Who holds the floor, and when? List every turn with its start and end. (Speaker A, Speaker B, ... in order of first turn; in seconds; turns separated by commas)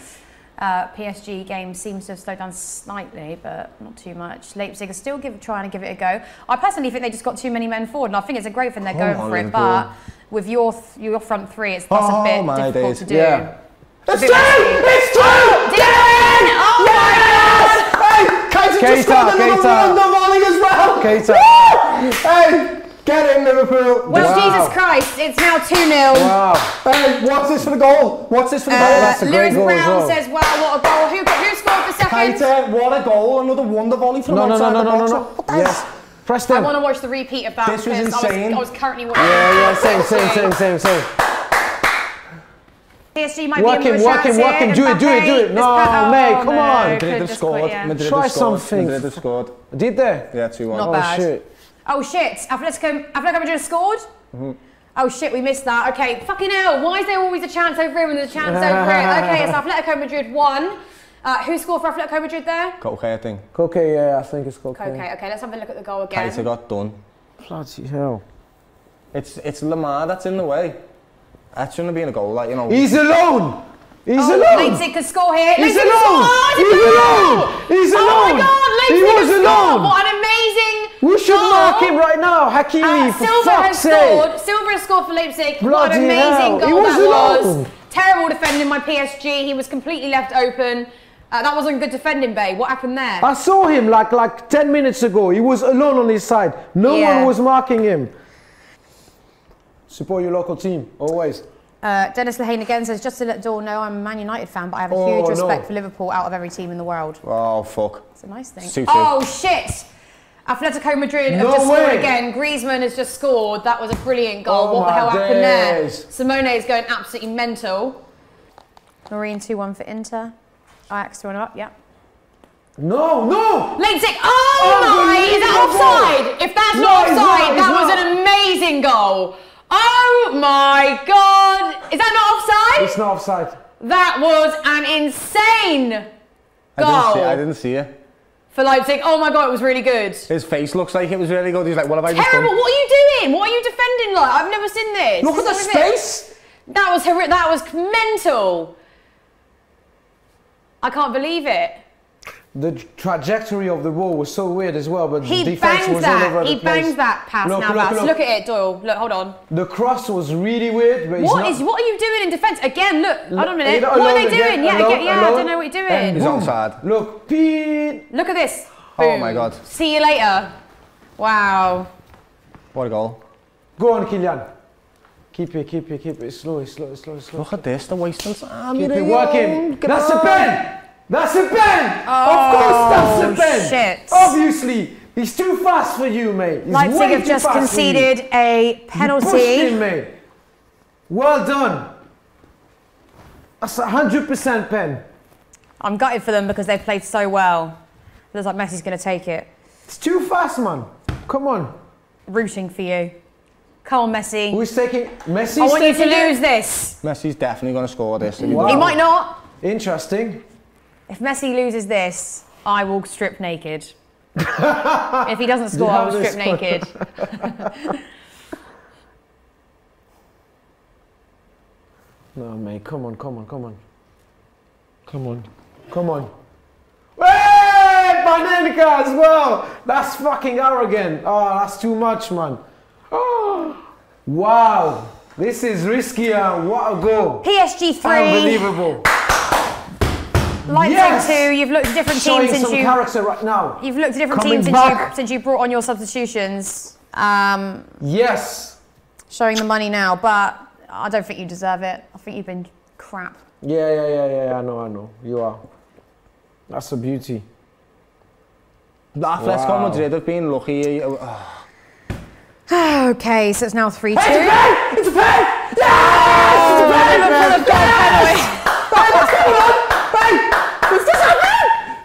Speaker A: 0.6-13.5, Speaker B: 8.9-9.9, Speaker B: 11.9-13.1, Speaker C: 13.1-13.5, Speaker B: 14.1-24.6, Speaker A: 14.1-18.0, Speaker C: 18.8-20.0, Speaker C: 21.0-21.8, Speaker A: 24.1-26.4, Speaker C: 24.1-24.8, Speaker C: 26.1-26.8, Speaker B: 26.8-29.2, Speaker A: 28.7-32.5, Speaker C: 28.8-30.2, Speaker B: 32.0-35.8, Speaker C: 34.3-36.7, Speaker A: 36.5-40.5, Speaker B: 37.6-38.6, Speaker C: 39.1-41.1, Speaker A: 43.1-48.0, Speaker C: 43.6-47.0, Speaker B: 46.9-49.6, Speaker C: 48.0-51.5, Speaker B: 50.3-51.0, Speaker A: 50.7-51.3, Speaker A: 51.9-54.0, Speaker A: 55.0-62.8, Speaker C: 58.4-59.6, Speaker B: 62.8-63.5, Speaker C: 63.5-65.0, Speaker A: 64.7-66.5, Speaker B: 66.1-67.0, Speaker C: 67.4-68.2, Speaker B: 69.1-70.8, Speaker B: 71.5-72.9, Speaker C: 72.7-74.8, Speaker A: 74.2-82.0, Speaker C: 75.5-80.0, Speaker C: 81.0-84.3, Speaker A: 82.8-93.3, Speaker C: 85.6-87.7, Speaker C: 93.2-98.1, Speaker A: 96.8-97.3, Speaker C: 99.9-101.4, Speaker A: 101.8-107.2, Speaker C: 104.9-105.7, Speaker B: 107.2-108.1, Speaker A: 108.2-109.9, Speaker B: 108.6-109.1, Speaker A: 110.5-118.0, Speaker C: 111.3-112.1, Speaker C: 114.5-116.1, Speaker A: 119.1-120.3, Speaker A: 120.9-121.7, Speaker C: 122.8-123.8, Speaker A: 123.8-133.0, Speaker C: 124.6-126.2, Speaker C: 126.7-128.1, Speaker C: 132.8-133.6, Speaker A: 133.8-136.1, Speaker B: 136.8-137.9, Speaker A: 136.8-137.4, Speaker A: 138.5-140.3, Speaker B: 140.3-142.5, Speaker A: 142.1-145.9, Speaker B: 145.2-146.3, Speaker A: 146.7-148.7, Speaker A: 150.8-151.8, Speaker C: 152.5-158.2, Speaker A: 155.2-159.4, Speaker C: 159.5-161.6, Speaker A: 161.2-166.3, Speaker C: 163.3-168.1, Speaker B: 166.2-166.8, Speaker A: 168.1-170.5, Speaker B: 169.0-169.6, Speaker A: 171.2-171.9, Speaker B: 172.7-173.2, Speaker C: 173.8-174.5, Speaker C: 175.3-177.5, Speaker B: 177.4-180.6, Speaker C: 178.8-188.1, Speaker A: 182.1-184.4, Speaker A: 186.7-189.8, Speaker C: 188.9-190.1, Speaker C: 191.1-191.9, Speaker C: 193.6-195.0, Speaker A: 195.8-197.8, Speaker A: 198.3-199.5, Speaker C: 199.9-201.7, Speaker A: 202.3-203.1, Speaker A: 203.8-204.6, Speaker C: 204.5-206.4, Speaker A: 205.6-207.0, Speaker B: 207.0-209.0, Speaker C: 208.4-209.0, Speaker A: 208.7-209.4, Speaker C: 209.6-210.4, Speaker A: 211.1-213.9, Speaker C: 214.4-217.4, Speaker A: 215.2-218.0, Speaker C: 222.3-223.8, Speaker C: 225.1-226.3, Speaker C: 227.2-237.4, Speaker A: 237.4-238.7, Speaker C: 238.0-239.1, Speaker A: 240.7-243.0, Speaker C: 240.7-241.5, Speaker C: 242.1-243.8, Speaker A: 243.8-247.9, Speaker C: 244.3-245.1, Speaker B: 244.3-244.9, Speaker C: 248.0-248.8, Speaker A: 249.3-253.4, Speaker C: 253.6-255.6, Speaker C: 256.7-257.4, Speaker B: 259.1-261.6, Speaker C: 259.4-260.0, Speaker A: 262.7-264.6, Speaker B: 264.1-268.4, Speaker C: 266.0-267.5, Speaker A: 266.0-269.5, Speaker B: 268.9-271.8